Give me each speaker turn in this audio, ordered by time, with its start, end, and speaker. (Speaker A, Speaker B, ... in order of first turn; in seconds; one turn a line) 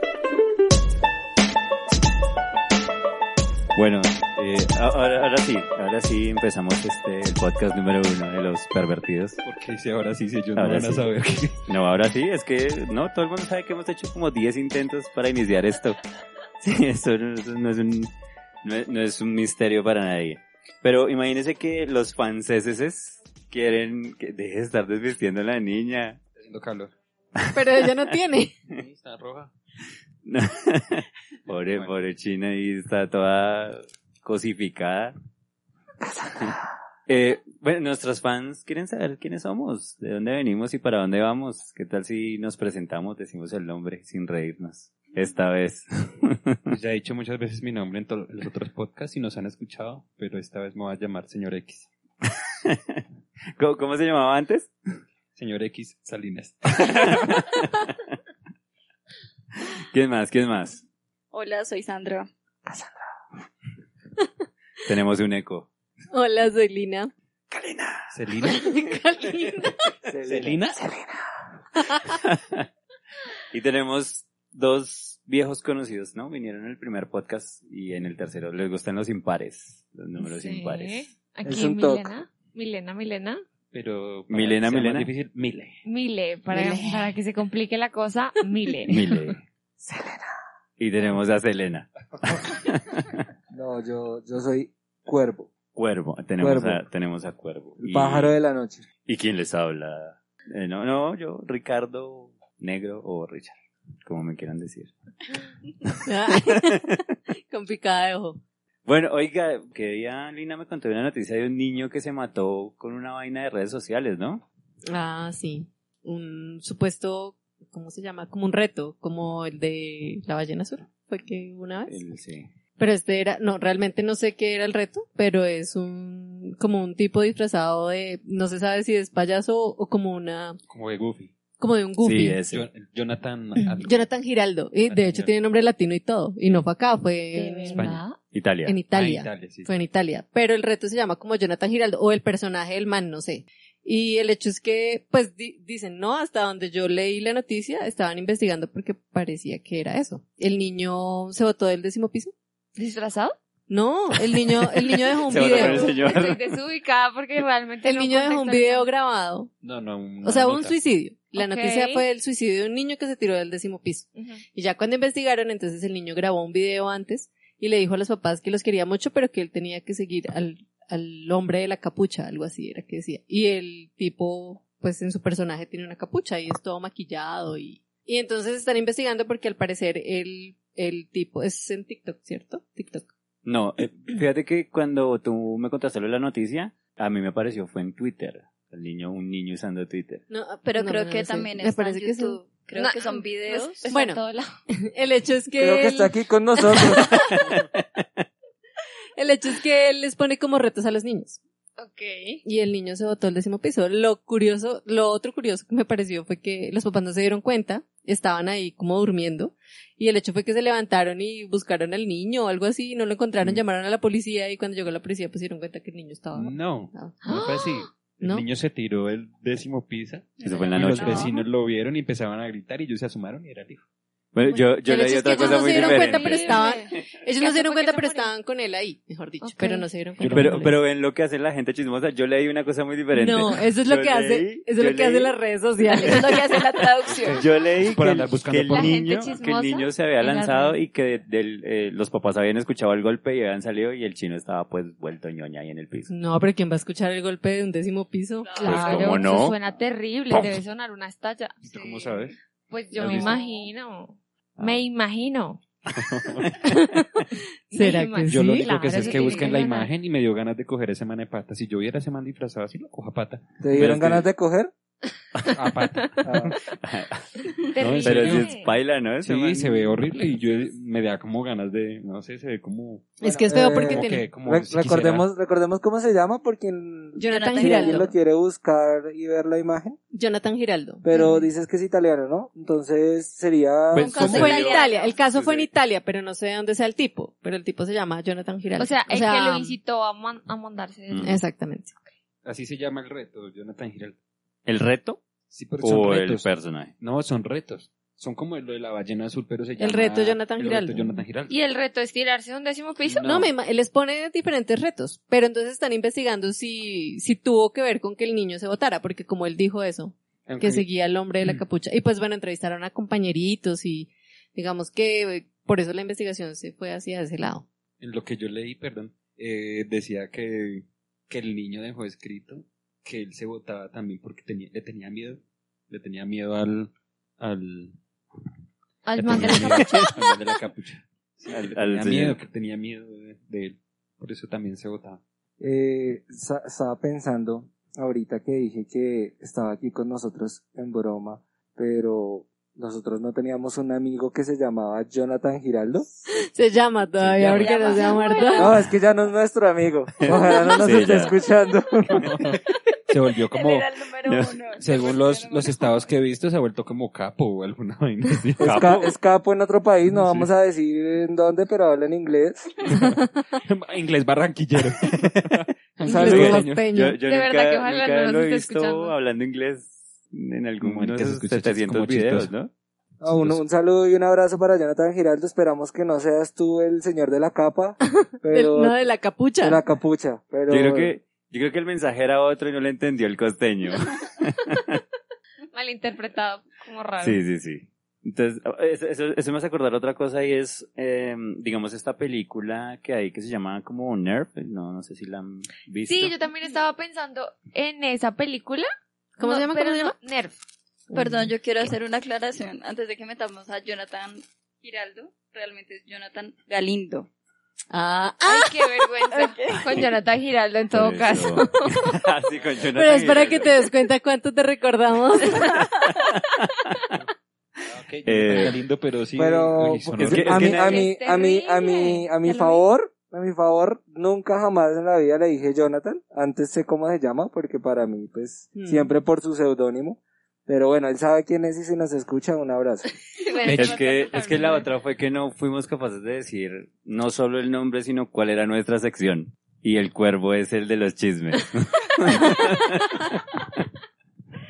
Speaker A: 3.8-9.4
Speaker B: 9.4-11.6
Speaker A: 10.6-11.1
Speaker A: 11.7-16.0
Speaker A: 16.6-18.1
Speaker A: 18.6-26.2
Speaker B: 26.4-26.9
Speaker C: 27.5-28.6
Speaker B: 28.7-29.5
Speaker A: 30.3-35.1
Speaker B: 31.5-31.9
Speaker A: 37.1-46.8
Speaker B: 46.7-51.9
Speaker A: 52.2-53.0
Speaker A: 53.6-54.7
Speaker B: 55.4-57.6
Speaker A: 56.8-57.9
Speaker A: 59.9-60.8
Speaker D: 61.3-62.3
Speaker A: 64.8-65.7
Speaker C: 66.1-67.1
Speaker A: 67.5-68.1
Speaker B: 68.1-68.7
Speaker C: 68.4-69.9
Speaker E: 70.1-71.2
Speaker B: 70.3-70.8
Speaker A: 72.1-72.7
Speaker A: 73.5-81.1
Speaker F: 80.2-83.4
Speaker E: 81.5-82.1
Speaker B: 83.7-85.8
Speaker A: 84.3-85.1
Speaker F: 85.8-89.4
Speaker C: 86.5-87.0
Speaker A: 88.9-89.4
Speaker E: 89.8-90.3
Speaker A: 90.8-93.1
Speaker E: 93.5-95.5
Speaker A: 95.8-98.4
Speaker E: 96.4-96.8
Speaker E: 97.8-98.8
Speaker A: 99.1-103.5
Speaker A: 104.0-104.9
Speaker A: 105.8-107.0
Speaker C: 106.0-108.4
Speaker A: 108.9-114.5
Speaker C: 114.9-122.0
Speaker A: 121.9-122.5
Speaker C: 122.8-130.6
Speaker B: 130.7-131.3
Speaker C: 131.6-132.4
Speaker A: 132.0-132.7
Speaker B: 132.5-134.1
Speaker C: 133.8-137.9
Speaker B: 134.8-135.4
Speaker F: 137.3-138.2
Speaker B: 137.8-138.0
Speaker A: 138.3-138.8
Speaker C: 138.7-152.3
Speaker B: 138.9-139.7
Speaker F: 152.8-153.4
Speaker C: 153.7-156.1
Speaker A: 154.2-156.6
Speaker F: 155.4-158.9
Speaker C: 157.8-159.5
Speaker B: 159.6-160.8
Speaker C: 160.2-183.1
Speaker F: 161.4-162.1
Speaker F: 164.2-164.4
Speaker A: 183.4-190.2
Speaker C: 190.3-192.5
Speaker D: 190.7-193.8
Speaker F: 192.8-194.5
Speaker C: 193.9-194.2
Speaker C: 194.8-197.4
Speaker E: 195.6-197.3
Speaker A: 197.1-198.2
Speaker C: 199.2-201.4
Speaker F: 201.8-202.4
Speaker C: 202.4-217.4
Speaker B: 216.3-223.8
Speaker F: 217.2-217.9
Speaker C: 218.2-218.5
Speaker D: 220.4-221.5
Speaker A: 220.4-221.3
Speaker A: 224.3-227.1
Speaker C: 224.8-230.7
Speaker F: 225.3-228.3
Speaker F: 229.4-229.9
Speaker B: 230.2-230.7
Speaker A: 230.3-235.4
Speaker C: 233.1-236.9
Speaker A: 235.9-246.1
Speaker D: 236.0-237.4
Speaker B: 237.1-239.1
Speaker F: 238.7-240.8
Speaker C: 246.1-248.6
Speaker D: 248.5-249.0
Speaker F: 248.6-251.9
Speaker A: 248.6-249.6
Speaker B: 248.8-249.1
Speaker B: 251.6-252.4
Speaker D: 251.8-252.1
Speaker F: 252.7-255.6
Speaker B: 253.0-253.3
Speaker D: 253.0-253.7
Speaker B: 256.0-256.5
Speaker A: 256.4-257.2
Speaker C: 256.7-257.0
Speaker F: 257.7-259.9
Speaker C: 257.7-259.5
Speaker B: 258.3-264.3
Speaker E: 263.6-264.7
Speaker B: 265.5-266.6
Speaker E: 266.2-266.5
Speaker A: 266.8-267.2
Speaker F: 267.7-268.7
Speaker B: 267.8-268.6
Speaker A: 268.0-270.0
Speaker B: 269.2-275.3
Speaker C: 273.2-274.3
Speaker E: 273.5-280.0
Speaker C: 277.2-278.1
Speaker D: 277.2-278.1
Speaker C: 280.1-281.1
Speaker E: 281.0-284.3
Speaker F: 281.1-281.5
Speaker B: 283.9-284.7
Speaker D: 283.9-285.1
Speaker C: 284.2-289.8
Speaker F: 284.7-284.9
Speaker A: 285.3-285.7
Speaker F: 288.8-291.4
Speaker A: 291.1-291.4
Speaker C: 291.2-291.9
Speaker B: 292.4-294.2
Speaker A: 294.7-295.2
Speaker B: 295.5-296.5
Speaker A: 295.8-296.9
Speaker B: 297.0-301.6
Speaker C: 299.8-301.2
Speaker F: 301.5-303.4
Speaker B: 303.1-303.5
Speaker C: 303.2-317.6
Speaker B: 310.5-310.9
Speaker B: 318.0-328.0
Speaker F: 329.1-330.2
Speaker B: 329.1-335.2
Speaker A: 329.3-330.1
Speaker A: 331.5-332.4
Speaker E: 335.6-346.1
Speaker C: 346.3-348.7
Speaker B: 347.2-347.8
Speaker F: 347.6-348.7
Speaker D: 347.7-348.5
Speaker E: 348.6-352.4
Speaker A: 350.2-351.4
Speaker B: 352.2-353.9
Speaker D: 353.5-356.1
Speaker A: 354.3-354.6
Speaker B: 354.8-359.1
Speaker E: 358.6-362.7
Speaker B: 360.1-360.5
Speaker B: 362.9-366.9
Speaker E: 366.1-366.7
Speaker C: 366.1-367.2
Speaker A: 366.9-372.7
Speaker F: 367.2-369.2
Speaker B: 370.8-372.5
Speaker E: 373.2-379.0
Speaker B: 373.2-373.6
Speaker C: 378.5-379.8
Speaker E: 379.6-381.1
Speaker A: 380.7-385.0
Speaker F: 385.7-387.4
Speaker A: 387.2-396.4
Speaker F: 396.1-398.9
Speaker C: 399.4-400.1
Speaker F: 399.4-400.6
Speaker C: 401.1-401.5
Speaker D: 401.1-407.3
Speaker C: 407.9-409.0
Speaker F: 408.5-412.1
Speaker D: 409.4-409.9
Speaker A: 410.9-413.9
Speaker C: 412.9-415.7
Speaker A: 415.7-417.0
Speaker B: 417.9-421.0
Speaker A: 418.3-418.8
Speaker E: 419.4-433.1
Speaker A: 420.2-421.0
Speaker F: 420.7-422.9
Speaker C: 428.8-429.1
Speaker F: 433.4-434.9
Speaker B: 433.6-434.0
Speaker A: 433.7-443.8